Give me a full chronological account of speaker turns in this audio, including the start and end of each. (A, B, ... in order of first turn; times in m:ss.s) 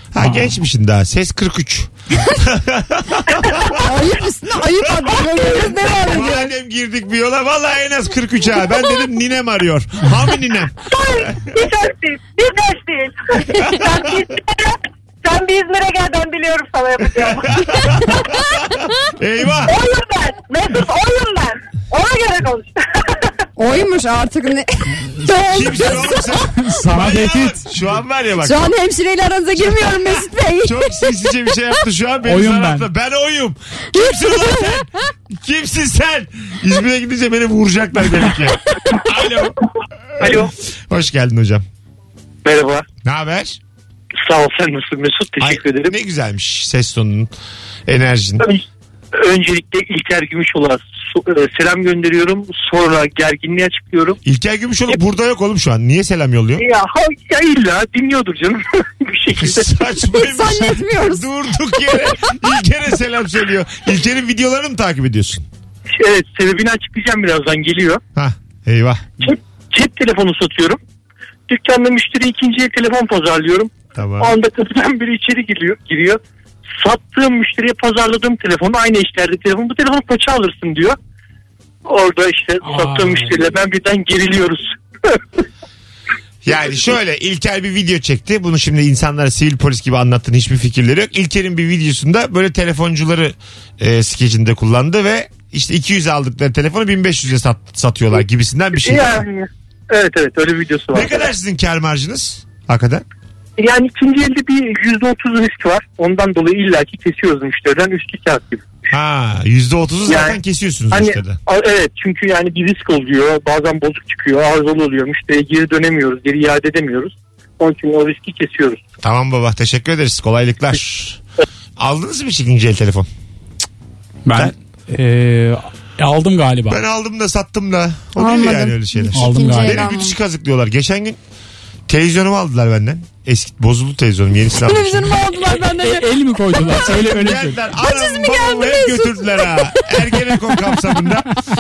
0:00.1-0:03.8 A
0:03.4-0:03.7 B
0:03.7-0:06.5 C
0:05.8-0:10.8 A
0:10.9-0:18.1 B
0:17.6-0:18.0 A
0:19.1-0:19.8 A
0:19.6-0:23.3 B
0:23.6-0:26.3 C
0:25.0-0:27.7 D
0:25.5-0:28.7 A
0:28.4-0:31.1 C
0:29.6-0:39.6 A
0:32.3-0:32.9 D
0:34.0-0:34.7 C
0:40.2-0:41.6 A
0:40.2-0:40.5 E
0:42.4-0:42.8 E
0:43.0-0:43.6 A
0:44.2-0:46.0 E
0:45.4-0:47.3 A
0:47.9-0:48.5 A
0:49.2-0:54.2 E
0:54.2-0:56.6 A
0:56.6-0:59.7 E
0:59.4-1:05.5 A
1:00.1-1:01.3 C
1:06.0-1:08.0 E
1:08.2-1:09.1 A
1:09.2-1:10.8 E
1:11.5-1:16.2 E
1:14.0-1:14.3 A
1:16.8-1:21.0 E
1:21.8-1:24.8 E
1:22.6-1:23.3 D
1:26.4-1:39.2 A
1:38.8-1:41.3 E
1:40.9-1:43.0 A
1:43.6-1:48.7 E
1:48.9-1:51.4 A
1:50.1-1:50.4 E
1:50.9-1:58.8 E
1:59.0-2:01.2 A
2:01.8-2:03.1 A
2:04.3-2:06.8 D
2:06.7-2:11.2 A
2:08.2-2:10.2 C
2:09.1-2:09.8 D
2:11.9-2:15.2 A
2:14.6-2:16.8 C
2:15.7-2:17.6 D
2:16.8-2:21.3 A
2:17.8-2:20.0 C